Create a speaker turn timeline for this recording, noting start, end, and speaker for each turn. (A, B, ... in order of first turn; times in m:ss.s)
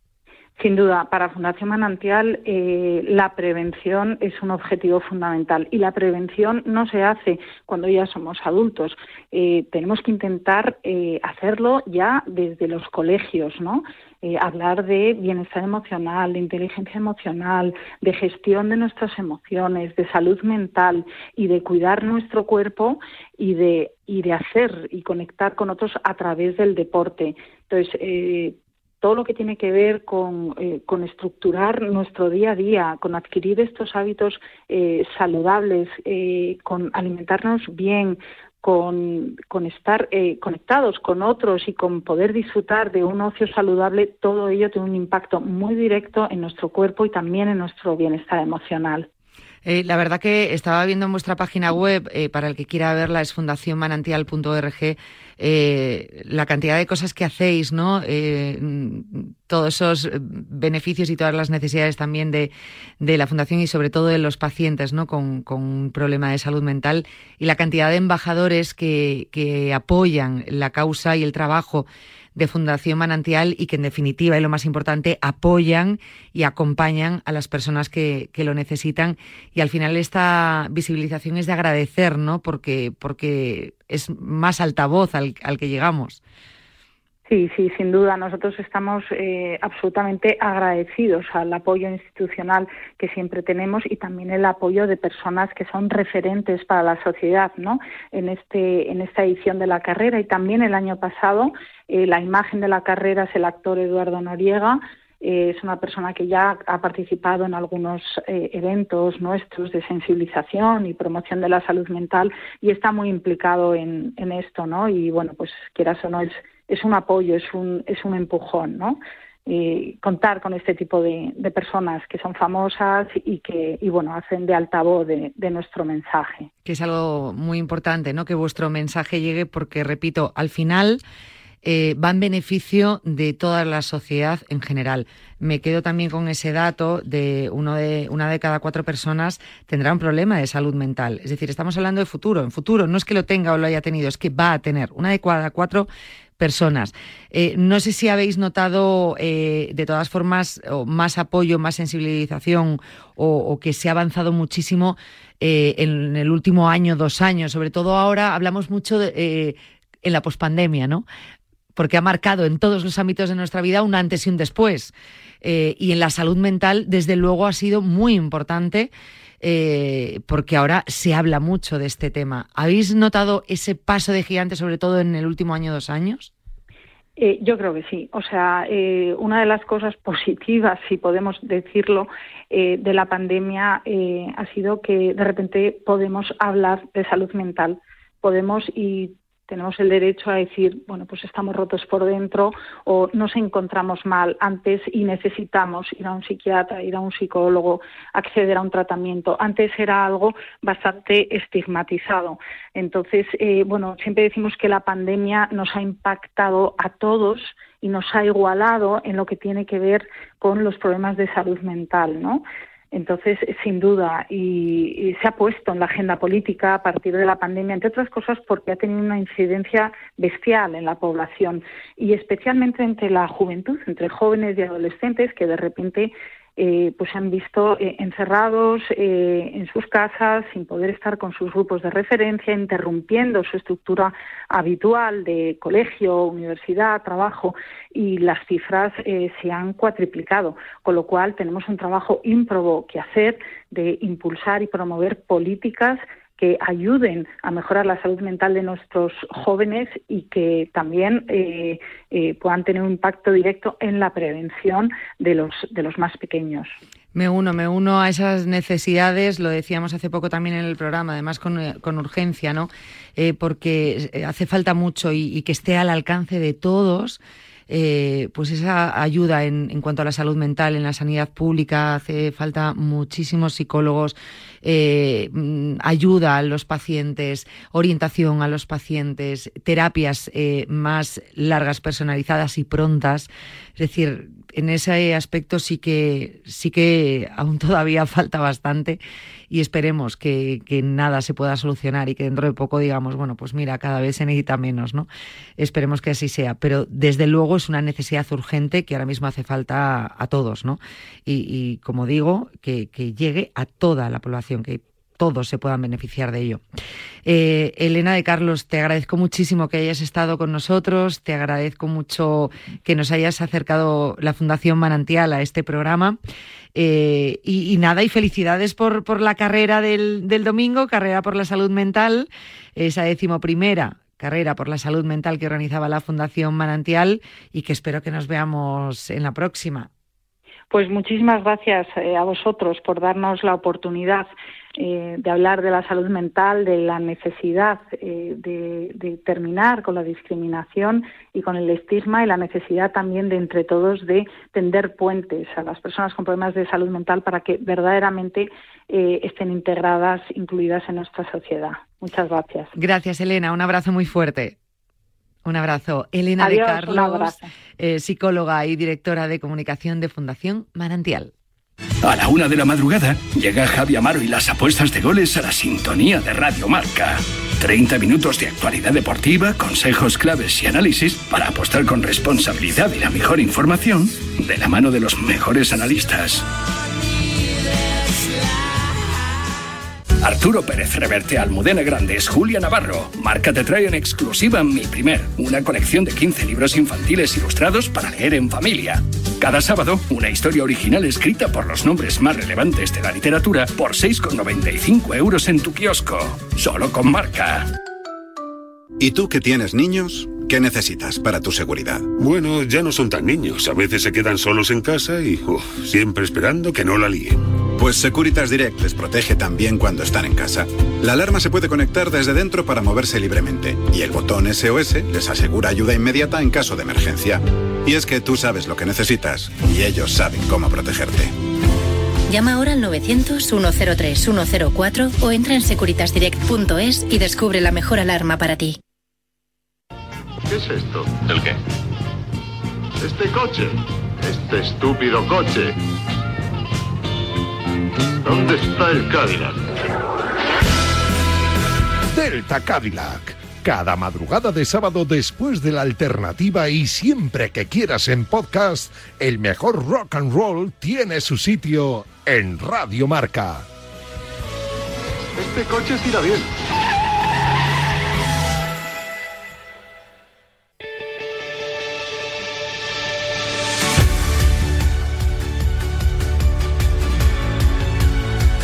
0:00.6-0:49.1 A
0:49.6-1:26.2 B
1:27.3-2:06.5 A
2:06.6-2:11.0 B
2:11.6-2:25.9 B
2:26.4-2:41.0 B
2:41.8-2:48.9 B
2:49.4-2:56.3 B
2:57.2-4:16.7 A
4:17.1-5:06.6 B
5:07.2-5:16.2 B
5:16.7-5:29.9 B
5:30.7-5:52.7 A
5:52.8-5:54.6 B
5:55.4-6:01.3 B
5:56.4-5:57.5 A
6:02.0-6:16.4 C
6:20.2-6:37.7 C
6:39.0-6:42.1 D
6:42.1-6:47.5 E
6:47.8-7:01.3 D
7:02.3-7:08.8 F
7:10.5-7:11.5 G
7:13.0-7:15.7 G
7:18.2-7:19.7 G
7:22.1-7:33.7 H
7:35.4-7:36.5 G